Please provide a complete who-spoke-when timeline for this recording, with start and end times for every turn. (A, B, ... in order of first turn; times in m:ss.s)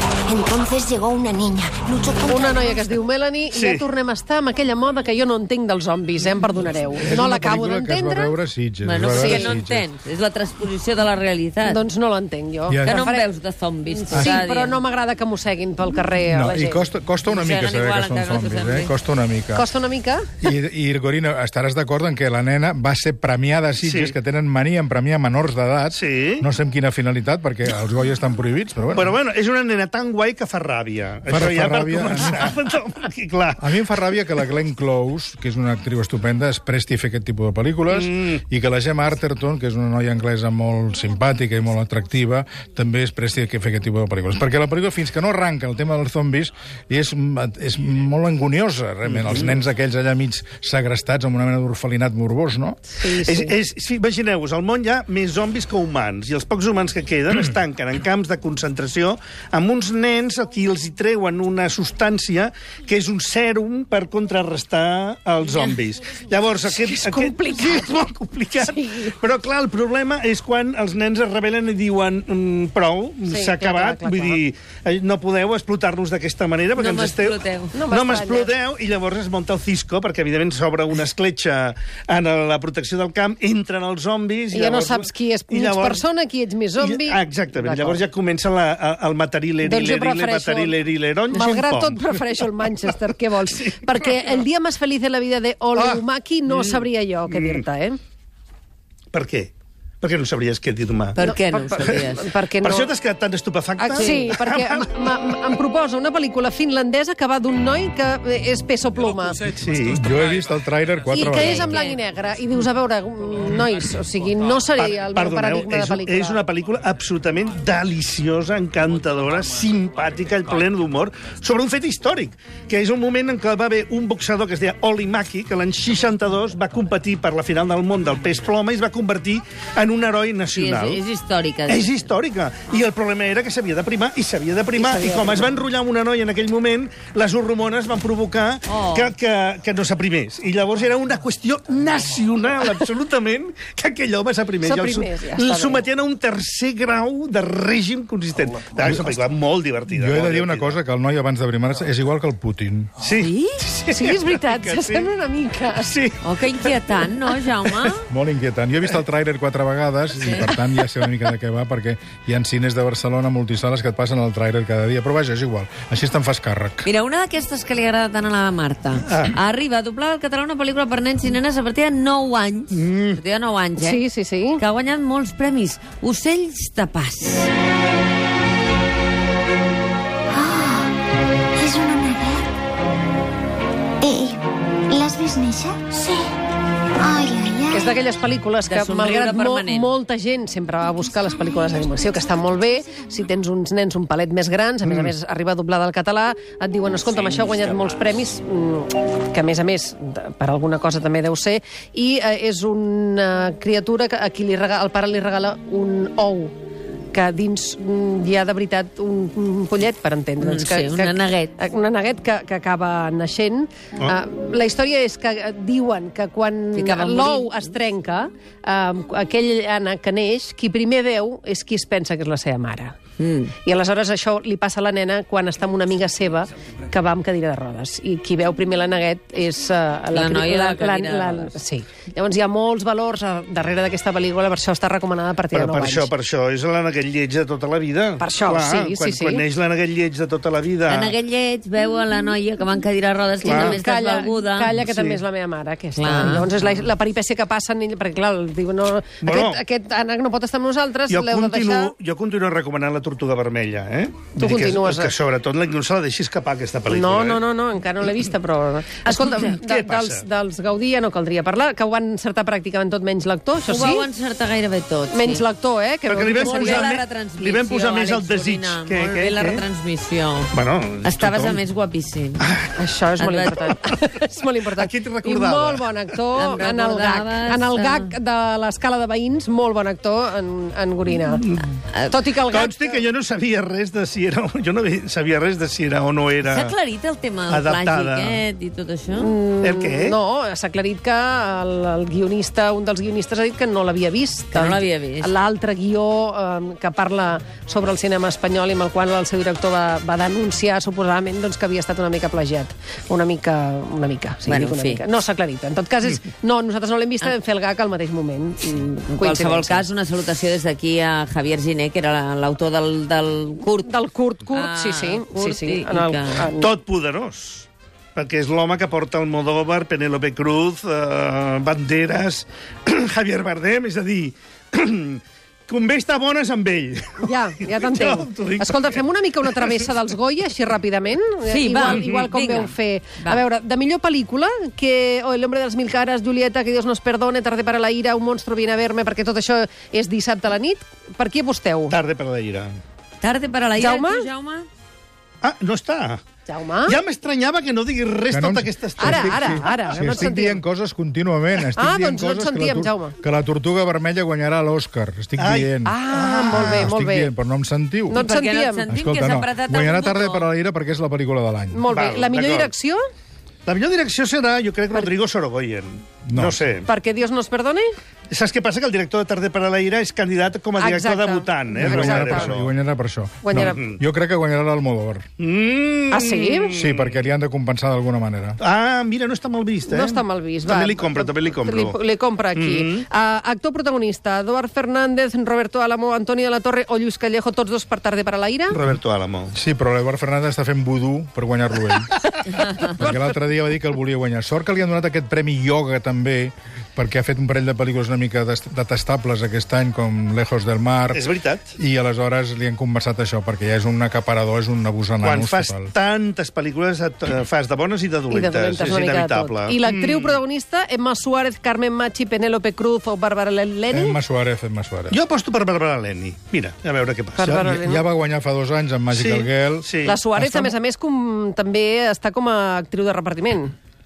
0:00.2-0:02.8 A
0:02.2-0:08.3 B
0:03.5-0:03.9 C
0:07.0-0:09.9 D
0:08.8-0:11.8 E
0:09.1-0:09.5 B
0:11.6-0:13.3 B
0:12.7-0:13.0 D
0:12.8-0:14.8 E
0:14.1-0:16.8 B
0:14.1-0:14.4 D
0:16.3-0:19.7 D
0:17.3-0:18.9 E
0:19.5-0:20.2 B
0:20.4-0:29.1 D
0:23.8-0:24.2 C
0:25.9-0:26.5 C
0:28.9-0:34.1 C
0:31.3-0:32.6 D
0:33.6-0:52.8 D
0:37.9-0:38.4 C
0:49.1-0:49.5 C
0:53.0-0:53.5 B
0:53.2-1:26.0 C
1:06.6-1:07.9 B
1:08.6-1:09.1 B
1:13.3-1:14.4 B
1:16.8-1:17.8 E
1:17.7-1:18.5 B
1:24.5-1:28.0 B
1:26.8-1:34.4 C
1:29.6-1:30.8 B
1:31.3-1:38.0 B
1:35.8-1:36.7 C
1:37.3-1:37.6 C
1:39.1-1:41.2 C
1:41.2-1:42.2 E
1:41.2-1:42.9 B
1:42.6-1:44.9 C
1:43.8-1:49.5 B
1:43.9-1:44.3 E
1:49.5-1:50.0 C
1:49.9-1:51.8 D
1:51.1-1:56.4 B
1:54.7-2:11.0 C
2:10.5-2:12.1 E
2:11.7-2:30.8 C
2:14.8-2:15.5 B
2:18.7-2:19.1 E
2:24.6-2:25.8 B
2:28.9-2:29.1 D
2:29.9-2:32.9 D
2:33.0-2:35.1 C
2:33.2-2:33.7 E
2:33.9-2:36.0 B
2:35.8-2:37.7 C
2:36.2-2:38.0 E
2:38.1-2:46.9 D
2:40.2-2:40.5 E
2:46.8-2:54.0 E
2:49.0-2:49.3 C
2:52.7-2:53.2 C
2:53.8-2:54.6 B
2:54.6-2:57.5 E
3:00.3-3:00.9 A
3:01.6-3:02.5 A
3:04.0-3:06.3 A
3:07.0-3:08.0 A
3:07.7-3:26.5 B
3:08.6-3:09.9 E
3:11.2-3:12.9 A
3:14.9-3:15.1 C
3:27.1-3:43.0 B
3:30.4-3:31.5 E
3:36.8-3:37.7 E
3:43.2-3:43.5 E
3:43.6-3:56.1 B
3:50.1-3:51.5 E
3:55.5-4:01.1 C
3:58.2-3:59.4 B
4:00.9-4:04.8 E
4:03.4-4:11.9 B
4:03.4-4:03.8 C
4:04.8-4:05.2 C
4:05.9-4:06.5 E
4:09.2-4:09.6 C
4:11.1-4:17.4 C
4:14.4-4:15.1 B
4:16.9-4:24.1 B
4:19.0-4:20.2 C
4:23.6-4:25.4 E
4:25.1-4:27.0 B
4:26.1-4:29.6 C
4:26.4-4:32.5 E
4:30.5-4:31.6 C
4:32.4-4:32.7 C
4:32.8-4:41.5 B
4:33.2-4:33.6 E
4:34.7-4:36.0 C
4:36.3-4:38.1 E
4:41.3-4:41.6 C
4:41.9-4:42.2 E
4:42.1-4:43.0 B
4:42.4-4:46.7 C
4:46.4-4:49.3 E
4:47.5-4:48.4 C
4:49.2-5:09.9 B
4:49.6-4:50.2 C
4:54.5-4:55.3 E
5:04.5-5:05.0 E
5:08.6-5:13.9 E
5:13.9-5:16.7 B
5:14.5-5:16.5 E
5:16.6-5:29.9 C
5:27.2-5:42.0 B
5:31.5-5:33.4 E
5:31.8-5:32.2 C
5:41.9-5:42.8 C
5:43.2-5:44.7 E
5:43.8-5:44.2 B
5:45.4-5:46.2 C
5:46.5-5:47.0 B
5:46.9-5:49.9 C
5:48.3-5:58.2 D
5:49.0-5:50.6 B
5:51.8-5:53.2 B
5:55.4-5:56.8 C
5:55.8-5:57.3 B
5:58.1-5:58.9 B
5:58.1-6:00.5 E
5:58.9-6:01.8 D
6:01.7-6:03.0 B
6:01.9-6:02.7 C
6:03.6-6:06.9 C
6:06.2-6:06.6 D
6:06.9-6:07.9 B
6:08.3-6:12.7 C
6:10.8-6:12.5 B
6:11.8-6:15.3 D
6:13.4-6:13.8 B
6:13.6-6:14.0 C
6:15.4-6:17.2 C
6:16.1-6:16.8 B
6:16.8-6:18.6 D
6:18.6-6:22.0 C
6:19.9-6:28.8 B
6:22.5-6:23.0 C
6:28.7-6:29.5 C
6:29.5-6:45.9 D
6:41.1-6:41.8 C
6:45.2-6:50.4 C
6:48.3-6:54.2 B
6:53.9-6:55.2 D
6:55.1-6:57.6 C
6:57.4-6:58.0 B
6:57.5-7:00.7 D
6:59.1-7:00.2 C
7:00.0-7:03.8 B